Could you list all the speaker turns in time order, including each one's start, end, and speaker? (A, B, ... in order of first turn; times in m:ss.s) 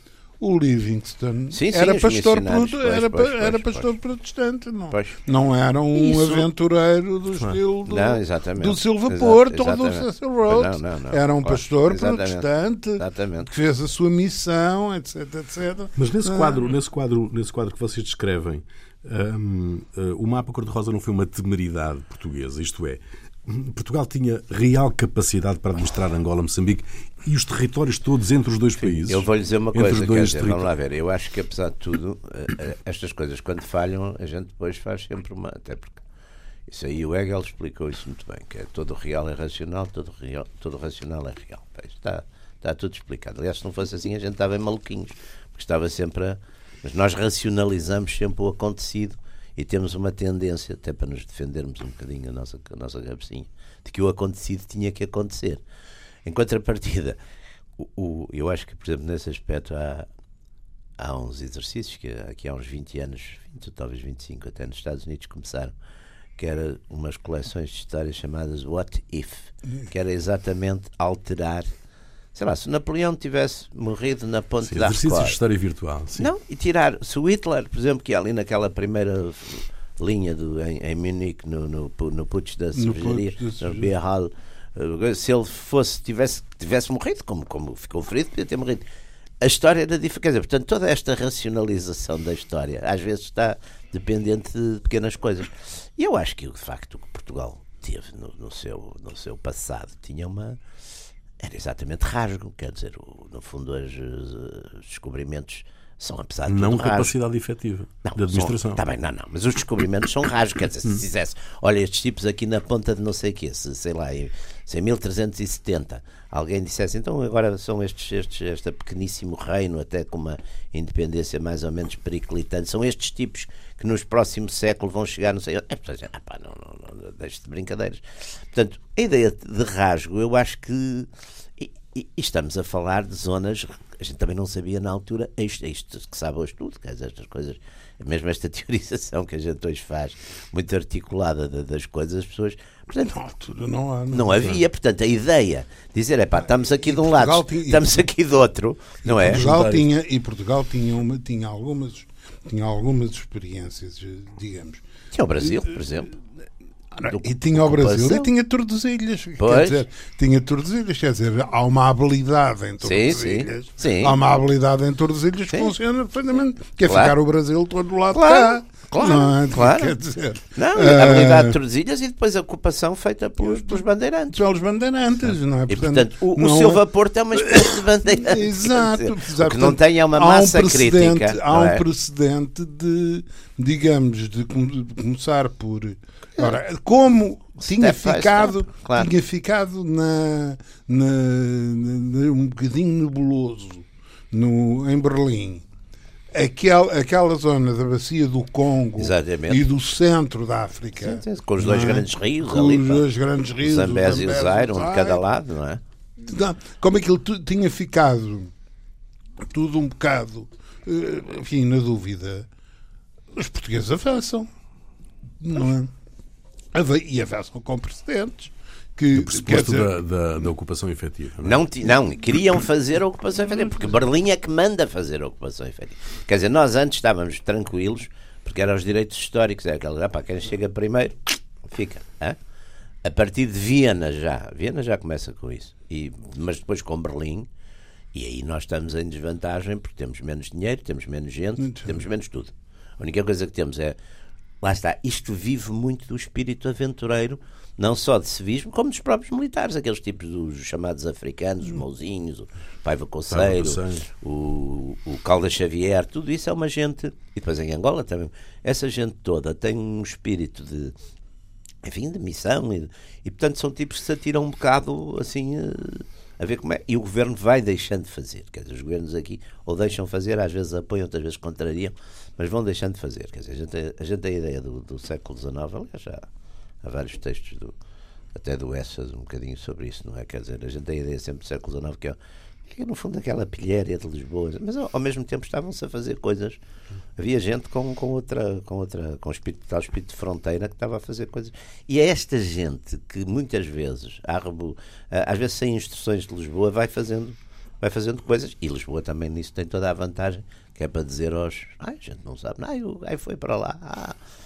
0:00.4-0:16.7 A
0:01.5-0:03.9 B
0:04.9-0:05.2 B
0:05.9-0:06.5 B
0:07.4-0:12.5 B
0:13.0-0:13.5 B
0:16.0-0:30.7 C
0:28.8-0:36.0 B
0:36.7-0:55.6 B
0:56.2-0:57.2 B
0:57.8-1:00.1 B
1:01.0-1:05.7 B
1:06.4-1:11.7 B
1:12.4-1:15.4 B
1:14.6-1:16.3 C
1:16.2-1:28.8 B
1:22.7-1:23.9 A
1:29.4-1:40.6 B
1:41.4-1:47.2 B
1:46.5-1:48.8 C
1:48.0-2:23.2 B
2:23.0-2:24.4 A
2:24.1-2:29.5 B
2:26.6-2:28.0 A
2:29.1-2:29.9 C
2:29.1-2:34.8 A
2:35.1-2:36.1 B
2:35.4-2:35.7 A
2:36.9-2:51.6 A
2:37.0-2:38.3 B
2:39.4-2:39.8 B
2:42.8-2:44.2 B
2:45.5-2:45.8 B
2:46.8-2:47.2 B
2:48.1-2:50.0 B
2:50.6-2:54.4 B
2:53.4-3:15.6 A
2:55.7-3:01.8 B
3:07.6-3:09.1 B
3:16.3-3:25.2 A
3:19.0-3:19.6 B
3:21.0-3:23.1 B
3:23.6-3:25.8 B
3:26.2-3:28.5 A
3:29.4-3:32.5 A
3:33.3-3:34.5 A
3:35.4-3:35.9 A
3:36.7-3:39.9 A
3:39.1-3:41.6 C
3:41.4-3:52.4 B
3:53.0-3:57.5 B
3:58.1-4:04.0 B
4:01.6-4:02.1 A
4:04.6-4:20.9 B
4:13.3-4:14.0 C
4:21.8-4:36.3 B
4:36.8-4:37.7 B
4:38.4-4:46.6 B
4:47.2-5:04.2 B